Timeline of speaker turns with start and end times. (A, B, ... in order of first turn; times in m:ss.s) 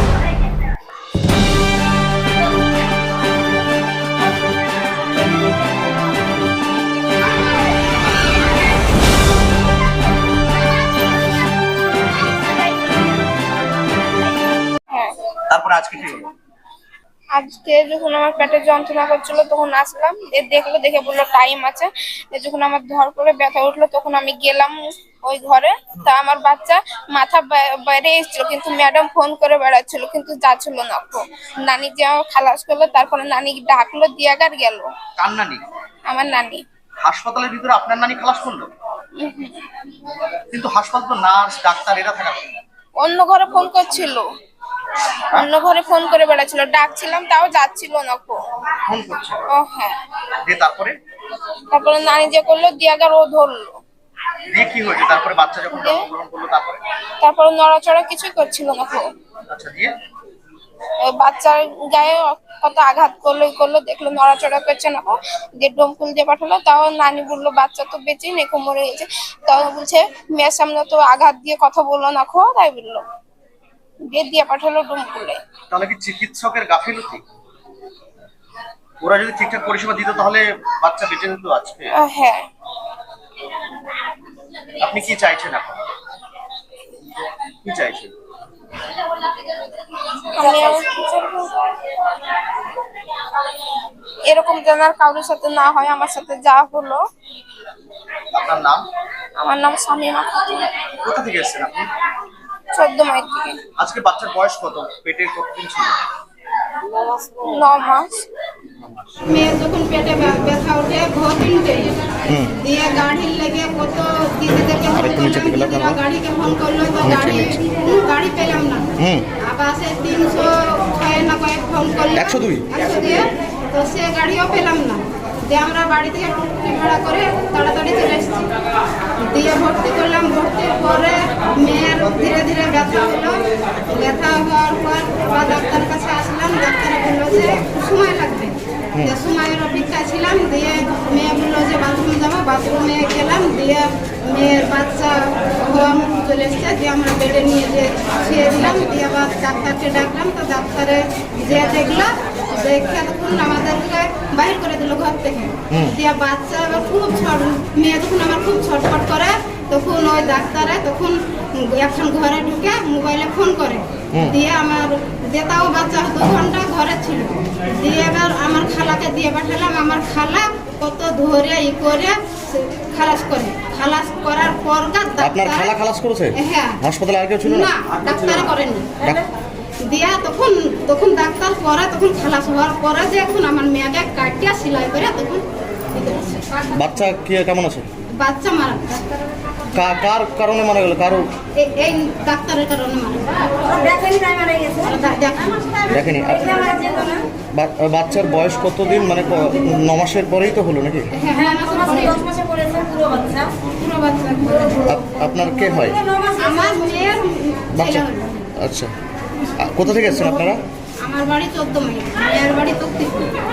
0:14.9-0:15.1 A
0:15.5-0:16.3 B
0:17.3-0:34.9 A
0:35.2-0:35.6 B
0:36.1-0:36.6 A
0:37.0-0:38.7 B
0:39.2-0:39.7 A
0:40.5-0:42.5 B
0:43.0-0:44.3 A
0:43.6-0:44.1 B
0:44.9-0:48.4 A
0:48.9-0:49.4 B
0:49.5-0:50.0 A
0:50.4-0:51.0 B
0:51.5-0:53.8 A
0:54.5-0:56.8 B
0:55.7-0:56.1 A
0:57.2-0:59.1 A
0:59.5-0:59.9 B
1:00.9-1:13.0 A
1:14.1-1:15.4 A
1:15.7-1:17.2 B
1:19.0-1:21.9 B
1:22.0-1:22.5 A
1:24.8-1:25.8 B
1:27.6-1:28.1 B
1:30.3-1:32.3 A
1:34.3-1:37.0 A
1:38.3-1:38.9 B
1:39.4-1:40.9 A
1:40.9-1:41.9 B
1:42.7-1:43.6 A
1:43.8-1:46.0 B
1:46.7-1:48.3 A
1:48.8-1:49.2 B
1:49.3-1:51.9 C
1:52.3-1:52.6 D
1:52.6-1:58.9 C
1:54.9-1:56.0 D
1:57.0-1:57.6 D
1:59.0-1:59.3 D
1:59.4-2:08.5 C
2:02.2-2:02.7 D
2:09.2-2:55.7 C
2:55.2-2:57.8 D
2:56.4-2:56.8 C
2:57.4-2:58.9 C
2:59.8-3:06.6 C
3:06.7-3:07.8 D
3:08.2-3:09.1 C
3:09.7-3:11.3 D
3:11.6-3:15.8 C
3:15.9-3:16.6 D
3:17.5-3:21.1 D
3:21.1-3:24.8 C
3:24.8-3:26.0 D
3:26.3-3:28.3 C
3:27.8-3:28.1 D
3:28.6-3:28.9 D
3:29.6-3:30.6 D
3:31.0-3:33.4 C